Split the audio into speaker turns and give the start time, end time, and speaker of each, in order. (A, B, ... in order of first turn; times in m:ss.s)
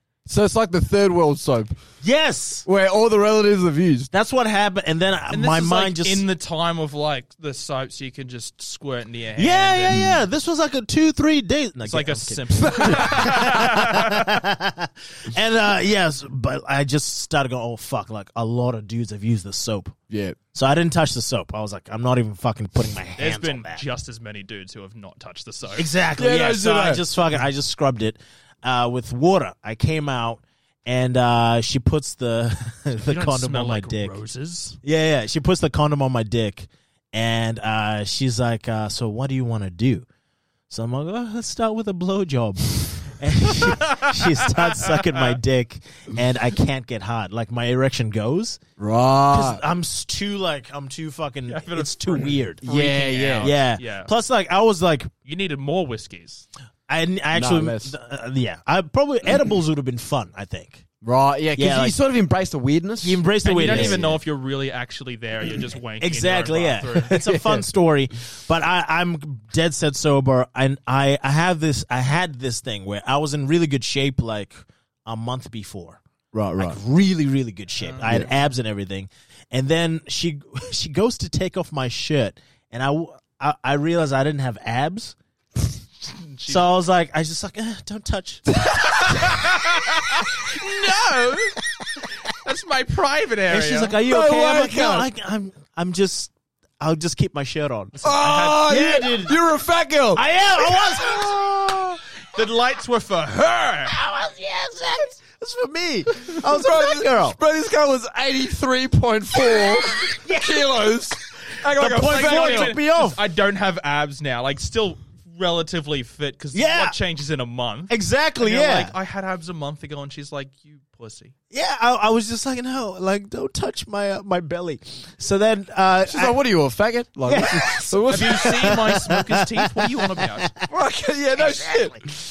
0:00.3-0:01.8 A
0:02.0-0:02.7 B
0:02.7-0:04.1 A
0:04.1-0:06.2 B
0:05.3-0:10.1 C
0:09.4-0:20.0 B
0:09.9-0:10.2 A
0:11.8-0:14.3 C
0:12.6-0:13.5 A
0:20.1-0:20.4 A
0:20.5-0:23.8 B
0:23.2-0:25.9 C
0:25.8-0:34.2 B
0:26.2-0:27.0 A
0:33.1-0:34.8 C
0:34.8-0:40.1 B
0:40.7-0:48.6 B
0:43.6-0:45.4 C
0:48.8-0:49.6 A
0:49.3-0:52.6 B
0:51.5-0:54.1 C
0:52.6-0:53.6 A
0:53.4-0:55.1 B
0:55.3-0:56.5 C
0:56.9-1:00.8 B
0:57.3-0:57.9 A
1:01.0-1:04.2 A
1:01.6-1:02.0 B
1:03.0-1:04.1 B
1:03.4-1:07.2 C
1:06.0-1:16.0 B
1:07.1-1:07.7 A
1:16.3-1:16.8 A
1:16.6-1:25.2 B
1:17.8-1:18.2 C
1:26.1-1:26.7 C
1:26.5-1:28.5 B
1:28.7-1:29.1 A
1:28.9-1:31.6 C
1:32.3-1:34.0 C
1:33.5-1:38.0 B
1:34.0-1:35.1 A
1:38.0-1:38.8 C
1:38.0-1:42.0 A
1:38.6-1:39.4 B
1:40.2-1:41.3 B
1:42.3-1:44.0 C
1:43.9-1:47.4 B
1:46.2-1:52.8 A
1:50.2-1:50.6 B
1:51.8-2:01.3 C
1:52.0-1:53.2 B
1:56.5-1:57.0 B
1:57.9-1:58.9 B
2:01.5-2:06.4 B
2:06.1-2:08.8 A
2:07.3-2:10.7 B
2:08.1-2:10.5 C
2:10.7-2:12.2 A
2:11.4-2:12.0 B